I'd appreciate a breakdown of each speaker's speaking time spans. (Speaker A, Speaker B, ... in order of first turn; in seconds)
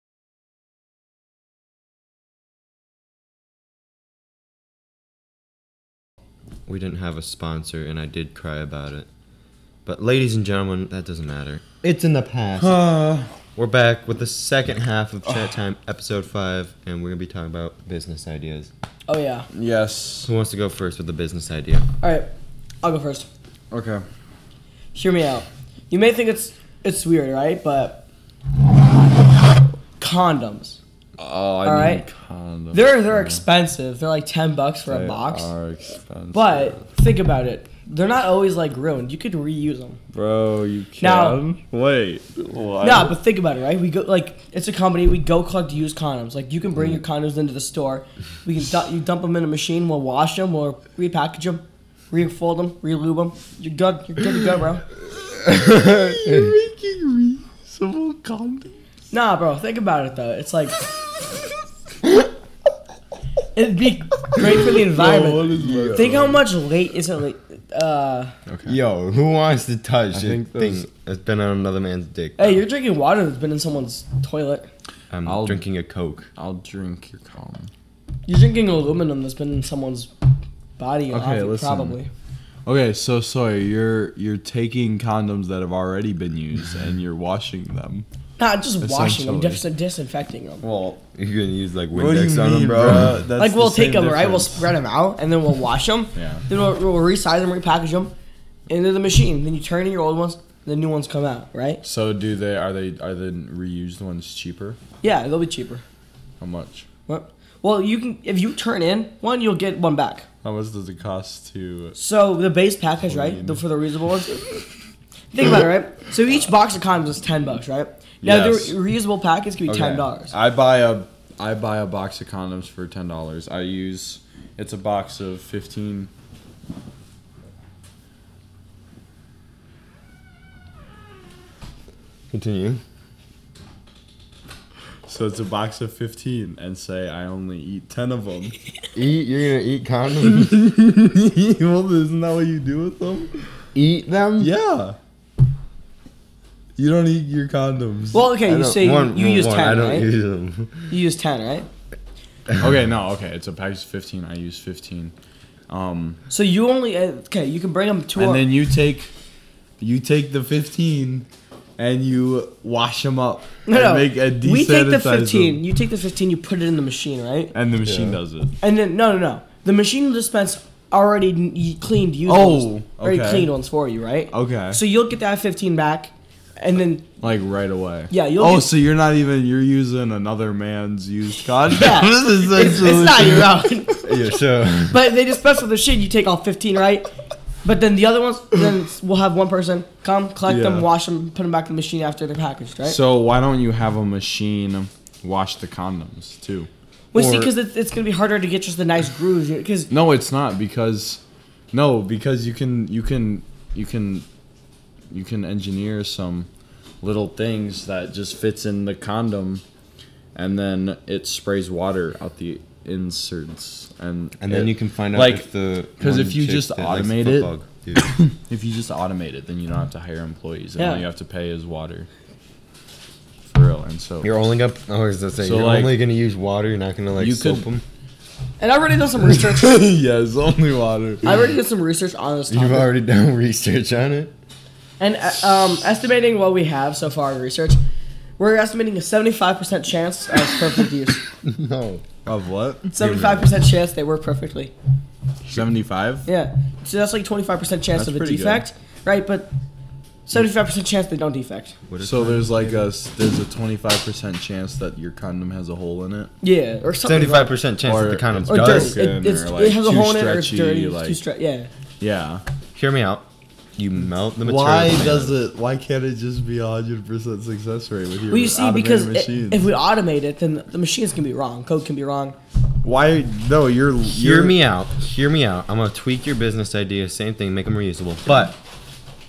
Speaker A: 6.7-9.1, 9.9-12.8, 13.6-18.7, 20.2-21.9, 55.5-56.5, 65.6-66.2, 68.7-72.6, 75.1-76.3, 91.1-93.2, 132.3-132.8, 138.9-140.6, 143.8-144.5, 148.4-150.9, 167.8-168.2, 184.0-185.0, 214.4-218.1, 224.2-227.8, 232.5-234.3, 241.4-242.1, 243.0-243.5, 251.9-252.9, 257.0-259.0, 262.8-265.4, 274.1-278.6
Speaker B: 12.6-13.3, 19.5-20.3, 23.7-24.0, 31.2-33.4, 34.9-36.8, 40.1-43.1, 55.6-58.8, 64.7-66.5, 68.5-68.8, 70.1-70.8, 75.3-75.6, 76.4-77.7, 81.1-82.0, 82.7-88.0, 88.8-89.6, 90.6-91.0, 91.9-94.7, 96.1-96.5, 101.8-104.8, 106.4-106.9, 110.4-112.0, 113.0-113.6, 118.2-118.8, 119.7-126.1, 135.1-138.6, 140.2-143.3, 144.4-145.0, 146.8-148.2, 152.6-155.1, 155.7-156.2, 158.2-159.1, 159.8-165.6, 167.5-168.6, 172.3-173.5, 174.3-174.8, 177.2-183.6, 190.5-190.9, 192.8-197.5, 199.9-201.2, 201.7-204.3, 205.1-206.5, 207.0-209.6, 210.3-222.1, 223.5-224.3, 225.4-226.0, 227.2-227.7, 229.5-231.3, 242.3-242.9, 245.5-246.3, 247.9-248.6, 252.0-256.3, 257.8-261.2, 262.0-262.4, 264.4-269.6, 272.8-274.6
Speaker C: 19.1-19.5, 22.0-22.3, 22.8-23.3, 24.9-28.1, 30.0-30.8, 31.6-32.1, 32.7-35.5, 36.3-40.0, 41.0-41.4, 42.8-54.9, 59.1-60.8, 63.6-68.3, 72.4-74.7, 78.3-80.1, 80.8-82.1, 88.4-90.6, 93.4-98.1, 98.7-101.8, 105.0-105.8, 107.1-110.3, 112.0-114.6, 115.3-120.3, 148.1-150.1, 150.9-151.7, 156.3-158.4, 163.7-167.5, 168.6-177.1, 178.1-178.7, 181.6-184.2, 184.8-187.1, 187.6-193.0, 197.1-199.9, 220.8-221.1, 228.6-229.8, 231.2-232.9, 235.0-237.8, 238.4-241.2, 242.9-244.7, 246.3-249.5, 250.3-251.8, 256.4-257.5, 258.5-261.7, 268.3-272.4